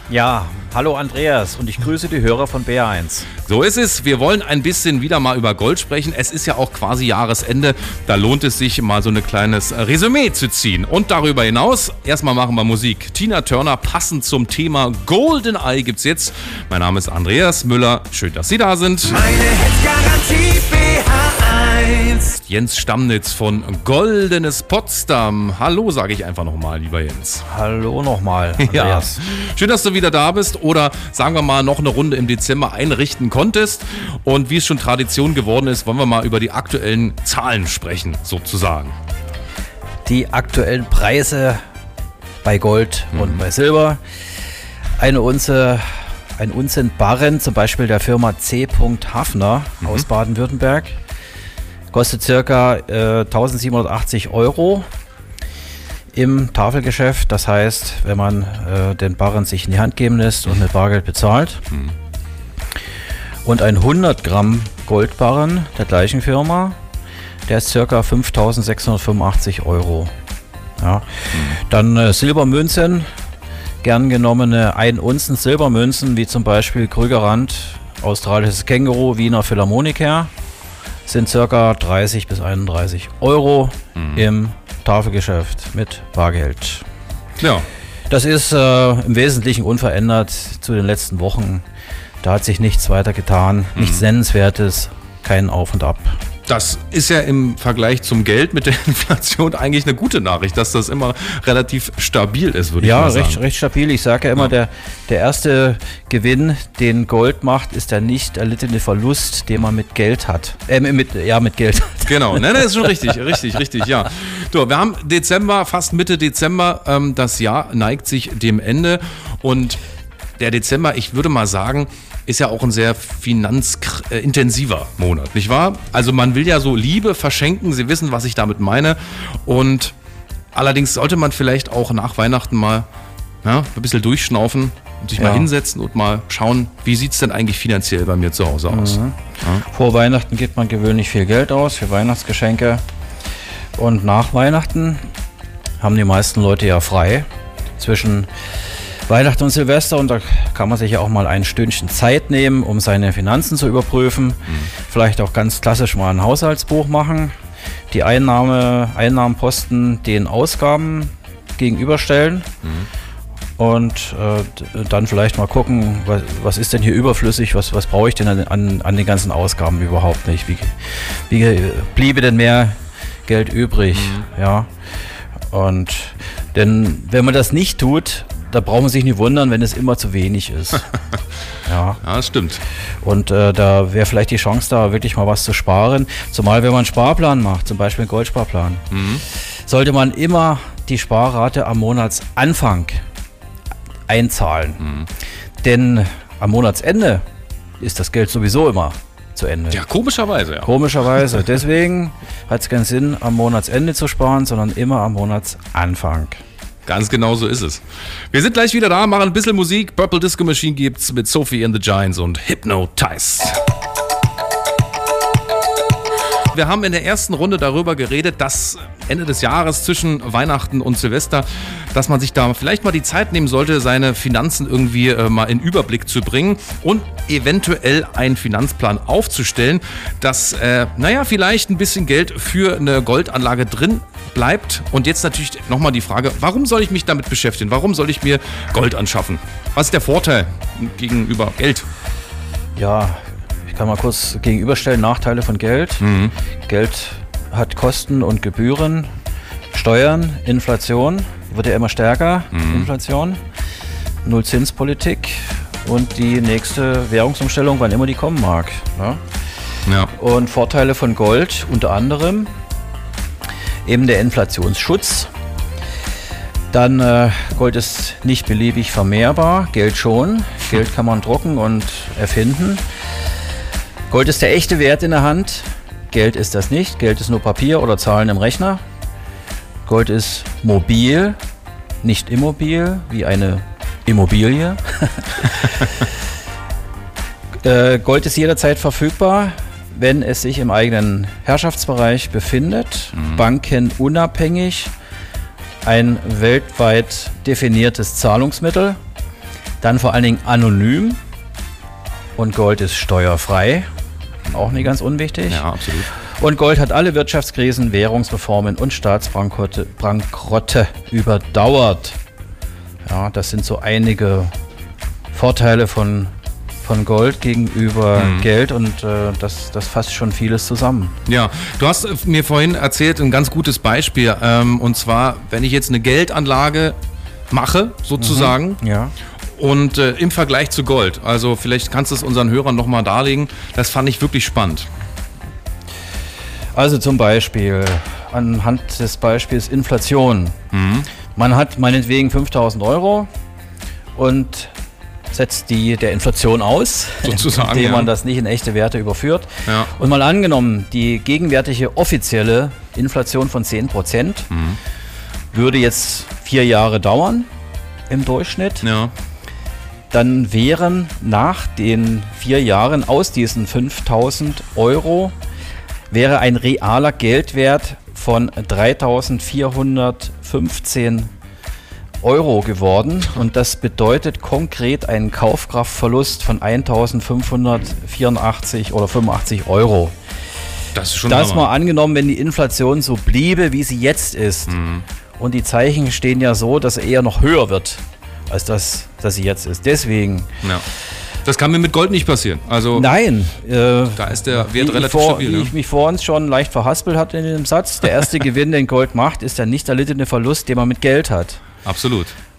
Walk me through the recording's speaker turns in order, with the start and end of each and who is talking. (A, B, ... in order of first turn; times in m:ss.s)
0:00.1-0:03.3 A
0:03.4-0:19.2 B
0:19.1-0:22.4 C
0:22.4-0:27.4 B
0:27.5-0:29.2 A
0:28.6-0:39.0 B
0:40.0-0:41.6 A
0:42.4-0:44.0 A
0:43.1-0:43.4 B
0:45.0-0:51.0 A
0:51.9-0:54.8 A
0:56.1-1:01.6 A
1:03.4-1:06.8 A
1:07.5-1:10.1 A
1:10.8-1:13.1 A
1:13.8-1:20.3 A
1:21.1-1:26.8 A
1:24.0-1:24.3 B
1:27.4-1:27.7 B
1:28.1-1:31.6 A
1:32.2-1:36.2 A
1:33.8-1:34.0 B
1:36.5-1:43.4 B
1:42.8-1:53.2 A
1:52.1-1:59.8 B
2:00.4-2:10.0 B
2:10.5-2:12.9 B
2:13.4-2:19.6 B
2:15.2-2:15.5 A
2:18.7-2:22.8 A
2:23.8-2:25.1 A
2:25.8-2:27.3 A
2:27.8-2:28.3 A
2:29.1-2:37.3 A
2:37.9-2:42.5 A
2:42.6-2:42.9 B
2:43.6-2:50.8 A
2:51.3-2:54.7 A
2:54.0-2:54.2 B
2:55.5-3:00.9 A
3:01.6-3:02.0 A
3:02.0-3:02.6 B
3:03.0-3:08.8 A
3:08.9-3:09.2 B
3:09.7-3:13.0 A
3:14.1-3:14.9 A
3:15.6-3:17.2 A
3:17.8-3:19.8 A
3:19.7-3:21.2 B
3:20.6-3:26.4 A
3:26.9-3:33.6 B
3:36.5-4:01.9 B
4:02.8-4:06.1 A
4:06.0-4:06.3 B
4:06.7-4:09.1 A
4:09.7-4:13.4 A
4:12.5-4:12.9 B
4:14.2-4:19.2 A
4:20.2-4:22.5 A
4:23.9-4:25.3 A
4:26.7-4:32.8 A
4:34.1-4:38.8 A
4:39.8-4:41.4 A
4:42.0-4:46.0 A
4:47.6-4:54.9 A
4:53.2-4:53.4 B
4:55.8-4:59.0 A
4:59.8-5:01.2 A
5:02.4-5:03.9 A
5:04.5-5:12.2 A
5:05.5-5:06.1 B
5:13.0-5:14.5 A
5:15.3-5:16.3 A
5:16.8-5:21.1 A
5:18.2-5:18.5 B
5:21.3-5:27.0 B
5:27.5-5:28.8 B
5:28.2-5:29.1 A
5:29.6-5:34.9 B
5:36.7-5:40.6 A
5:40.7-5:41.1 B
5:41.4-5:43.3 A
5:44.2-5:44.7 A
5:45.3-5:54.5 A
5:47.2-5:48.1 B
5:54.5-5:54.8 B
5:55.5-5:57.5 A
5:58.1-5:58.9 A
5:58.8-5:59.1 B
6:00.1-6:05.4 A
6:06.1-6:11.3 A
6:12.2-6:20.1 A
6:21.0-6:21.7 B
6:21.2-6:24.8 A
6:24.7-6:25.0 B
6:25.4-6:30.5 A
6:31.4-6:33.1 B
6:32.9-6:41.6 A
6:34.2-6:35.7 B
6:41.8-6:42.4 B